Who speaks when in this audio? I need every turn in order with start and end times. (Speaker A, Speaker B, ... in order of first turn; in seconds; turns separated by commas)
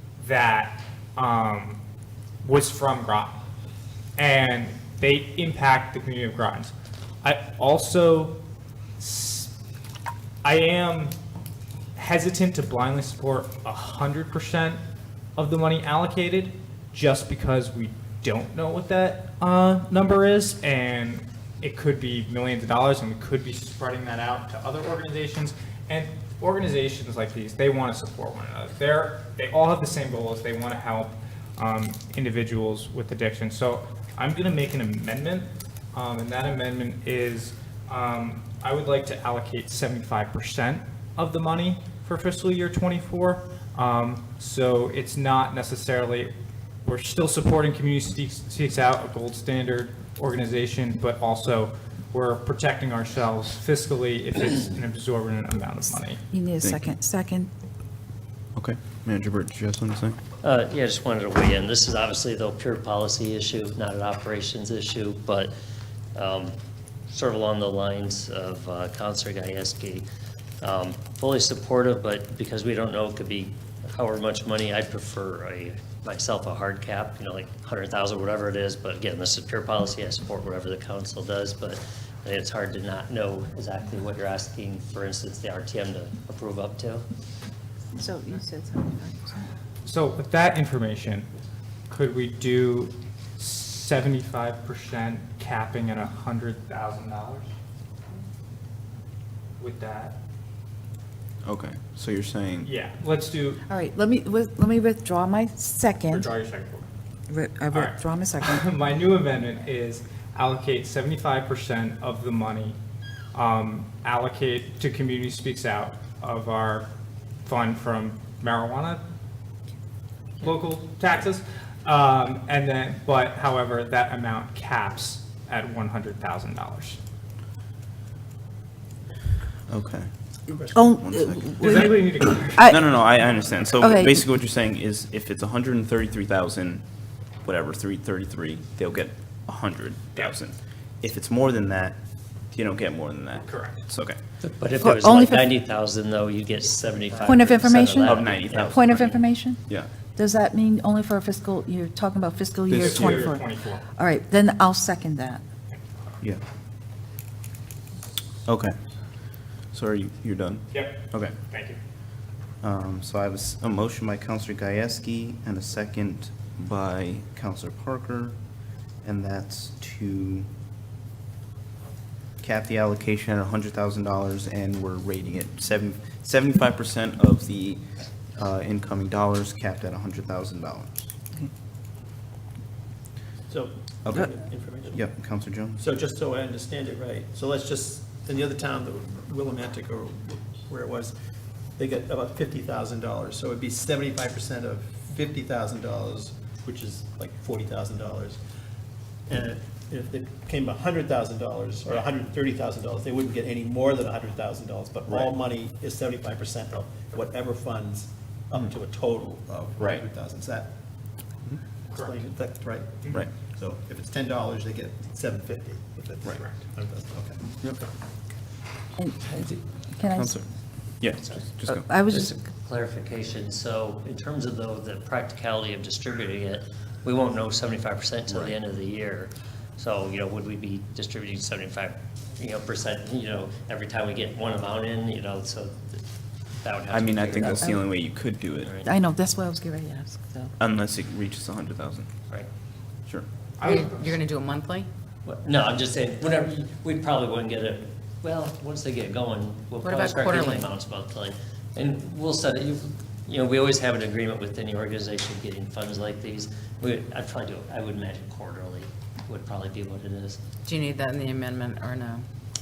Speaker A: 0.2-1.8, Speaker A: 2.4-3.4, Speaker A: 4.2-6.7, Speaker A: 7.2-8.4, Speaker A: 9.0-9.5, Speaker A: 10.4-11.2, Speaker A: 11.9-14.8, Speaker A: 15.3-46.3, Speaker A: 46.8-56.2, Speaker B: 56.3-57.5, Speaker C: 56.6-56.9, Speaker C: 58.5-60.2, Speaker D: 60.4-65.5, Speaker D: 66.1-66.5, Speaker D: 67.1-70.1, Speaker D: 70.6-87.1, Speaker B: 87.9-89.5, Speaker A: 89.8-91.3, Speaker A: 91.9-97.5, Speaker A: 99.6-100.2, Speaker C: 101.4-102.7, Speaker A: 102.6-103.6, Speaker B: 103.7-106.3, Speaker A: 106.1-106.8, Speaker B: 107.3-108.7, Speaker A: 107.7-112.8, Speaker A: 113.3-116.9, Speaker A: 117.4-119.0, Speaker A: 120.4-127.0, Speaker C: 129.7-130.1, Speaker E: 130.5-131.0, Speaker B: 130.7-132.8, Speaker C: 130.9-131.9, Speaker A: 131.6-133.5, Speaker C: 132.6-136.8, Speaker B: 133.8-134.2, Speaker C: 137.4-142.0, Speaker C: 142.5-144.2, Speaker A: 143.4-143.9, Speaker D: 144.4-149.2, Speaker B: 144.8-145.5, Speaker B: 147.2-153.4, Speaker C: 148.0-149.9, Speaker C: 152.7-153.3, Speaker A: 152.7-153.8, Speaker B: 154.0-155.4, Speaker A: 155.7-156.2, Speaker C: 158.4-158.7, Speaker C: 159.7-161.3, Speaker A: 160.7-161.8, Speaker C: 162.6-168.3, Speaker C: 169.0-170.5, Speaker C: 172.4-177.8, Speaker C: 178.3-181.1, Speaker E: 183.5-185.1, Speaker C: 184.0-184.3, Speaker C: 184.9-185.8, Speaker E: 185.8-191.1, Speaker E: 191.8-198.4, Speaker E: 199.3-210.7, Speaker C: 209.8-210.0, Speaker A: 211.9-212.2, Speaker E: 211.9-217.5, Speaker C: 213.1-213.4, Speaker C: 217.6-217.8, Speaker B: 218.9-220.4, Speaker C: 220.1-221.9, Speaker B: 221.7-222.4, Speaker D: 222.1-236.0, Speaker C: 228.3-228.6, Speaker D: 236.6-237.7, Speaker C: 236.9-238.8, Speaker B: 237.4-237.8, Speaker D: 238.6-238.9, Speaker B: 238.8-240.5, Speaker C: 240.6-242.1, Speaker A: 243.6-244.2, Speaker F: 243.6-244.9, Speaker D: 245.2-260.4, Speaker F: 249.8-250.7, Speaker F: 260.6-262.2